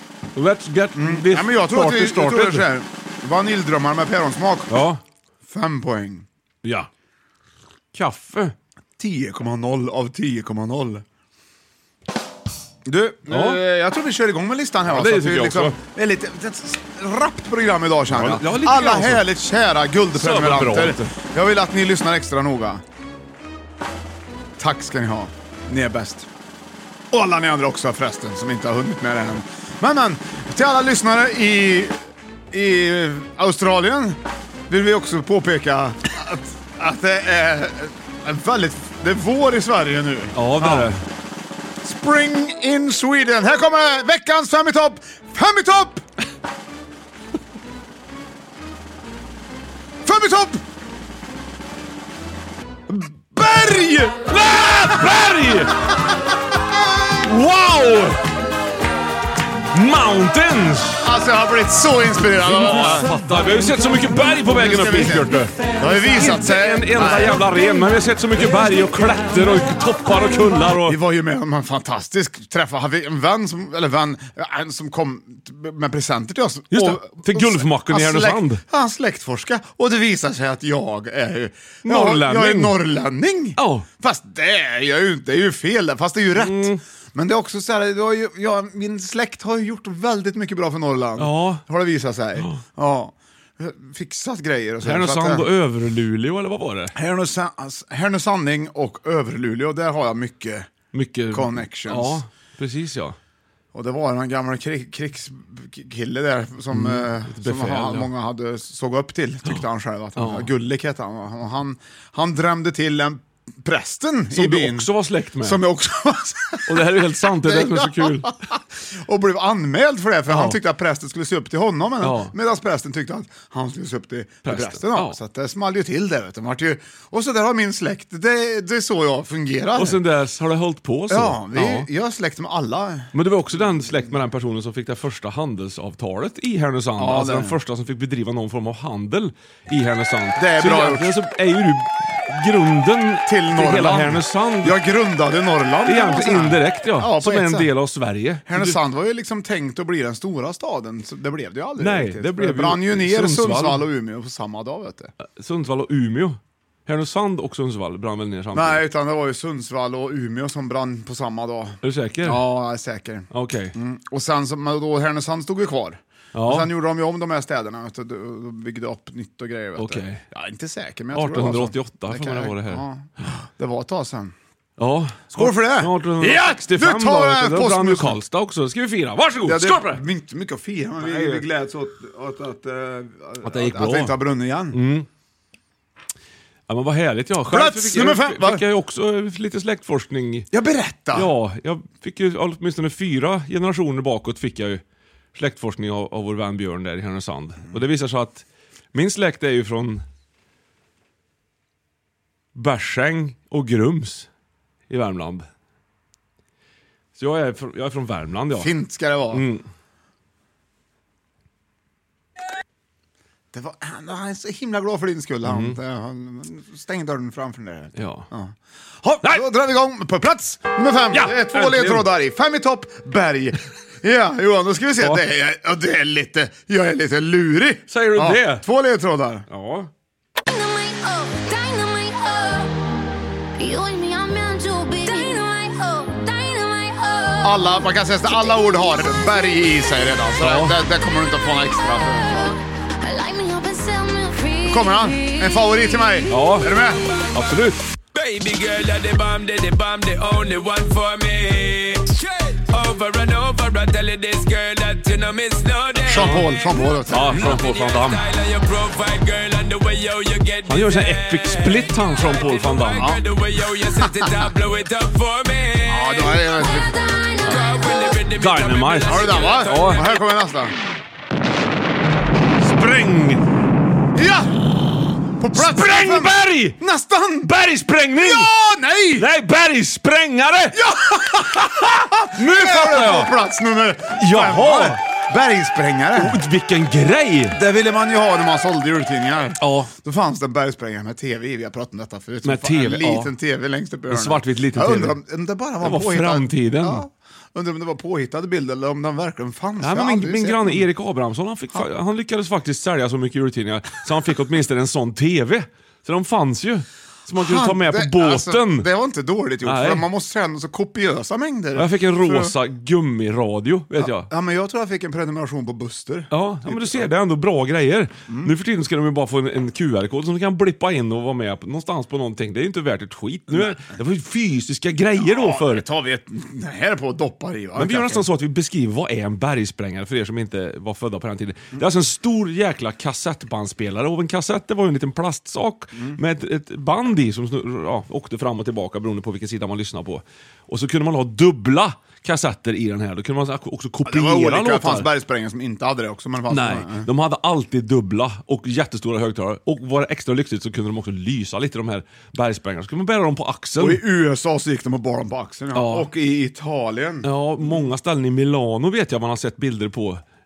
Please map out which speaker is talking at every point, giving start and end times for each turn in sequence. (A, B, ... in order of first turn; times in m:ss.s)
0:00.4-0:02.7 A
0:01.0-0:04.8 B
0:04.7-0:05.0 A
0:05.5-0:06.3 B
0:06.6-0:06.9 A
0:07.9-0:08.6 A
0:09.0-0:11.0 B
0:12.8-0:22.8 B
0:13.3-0:13.6 A
0:14.9-0:15.8 A
0:18.1-0:19.2 A
0:20.2-0:21.1 A
0:24.6-0:26.3 B
0:27.1-0:40.9 B
0:40.4-0:41.0 A
0:41.8-0:46.0 B
0:50.0-0:50.6 B
0:52.9-0:54.3 B
0:54.3-0:55.8 A
0:57.2-0:58.2 A
0:59.7-1:01.0 A
1:01.0-1:03.1 B
1:02.5-1:05.5 A
1:04.4-1:07.4 B
1:06.1-1:11.0 A
1:10.8-1:35.5 B
1:16.7-1:18.6 A
1:21.8-1:22.8 A
1:23.6-1:23.9 A
1:26.4-1:26.8 A
1:31.2-1:31.6 A
1:32.4-1:32.6 A
1:34.8-1:36.9 A
1:36.9-1:40.7 B
1:40.9-1:43.2 A
1:41.3-1:42.2 B
1:43.7-1:54.9 B
1:46.7-1:48.1 A
1:50.2-1:50.5 A
1:54.3-1:55.6 A
1:55.4-2:10.0 B
1:56.7-1:58.4 A
2:00.3-2:00.6 A
2:02.0-2:02.3 A
2:04.5-2:05.2 A
2:09.8-2:11.9 A
2:11.1-2:13.1 B
2:13.1-2:24.8 A
2:17.0-2:17.6 B
2:20.4-2:21.2 B
2:23.3-2:27.7 B
2:25.9-2:28.8 A
2:28.5-2:35.1 B
2:31.8-2:33.8 A
2:35.2-2:38.8 A
2:38.5-2:54.4 B
2:41.8-2:42.4 A
2:43.3-2:43.8 A
2:46.3-2:46.7 A
2:49.8-2:50.2 A
2:51.1-2:52.8 A
2:54.8-3:00.0 A
2:55.3-2:58.2 B
2:59.4-3:04.8 B
3:01.0-3:01.4 A
3:03.4-3:04.2 A
3:04.7-3:05.1 A
3:06.7-3:10.5 A
3:07.5-3:08.6 B
3:10.5-3:11.3 B
3:11.1-3:14.8 A
3:15.3-3:20.0 A
3:22.6-3:24.3 A
3:24.9-3:25.5 A
3:27.2-3:28.7 A
3:28.5-3:29.5 B
3:29.3-3:29.6 A
3:33.5-3:49.5 B
3:35.4-3:35.8 A
3:38.0-3:38.3 A
3:41.1-3:42.1 A
3:47.9-3:48.6 A
3:49.5-3:49.9 A
3:50.5-3:52.8 C
3:53.6-3:57.8 C
3:57.4-4:02.6 B
4:00.4-4:00.8 A
4:01.9-4:06.2 C
4:04.7-4:07.0 B
4:06.3-4:06.7 A
4:07.1-4:07.4 D
4:07.3-4:07.8 A
4:08.1-4:16.7 D
4:16.0-4:17.6 B
4:16.1-4:16.5 A
4:17.1-4:18.3 A
4:17.2-4:26.3 D
4:20.7-4:23.2 A
4:25.9-4:27.0 B
4:26.6-4:28.1 C
4:27.4-4:30.2 D
4:28.4-4:30.0 A
4:29.1-4:30.8 B
4:32.6-4:33.4 A
4:34.2-4:34.7 B
4:35.4-4:37.5 B
4:35.5-4:36.8 A
4:37.4-4:38.5 A
4:38.2-4:39.3 B
4:39.2-4:40.9 A
4:40.7-4:46.4 B
4:41.6-4:43.3 A
4:44.2-4:45.0 A
4:46.2-4:47.6 A
4:47.5-5:00.9 B
4:49.6-4:49.9 A
4:52.4-4:53.3 A
4:54.1-4:55.2 A
4:55.8-4:57.0 A
4:59.8-5:08.9 A
5:07.4-5:12.6 B
5:09.6-5:10.0 A
5:11.8-5:14.3 A
5:14.0-5:17.1 B
5:16.3-5:25.8 A
5:23.5-5:23.8 B
5:25.2-5:28.3 B
5:27.8-5:45.1 A
5:44.0-5:47.1 B
5:46.5-5:54.0 A
5:53.8-5:57.9 B
5:55.7-5:56.1 A
5:57.2-6:00.2 A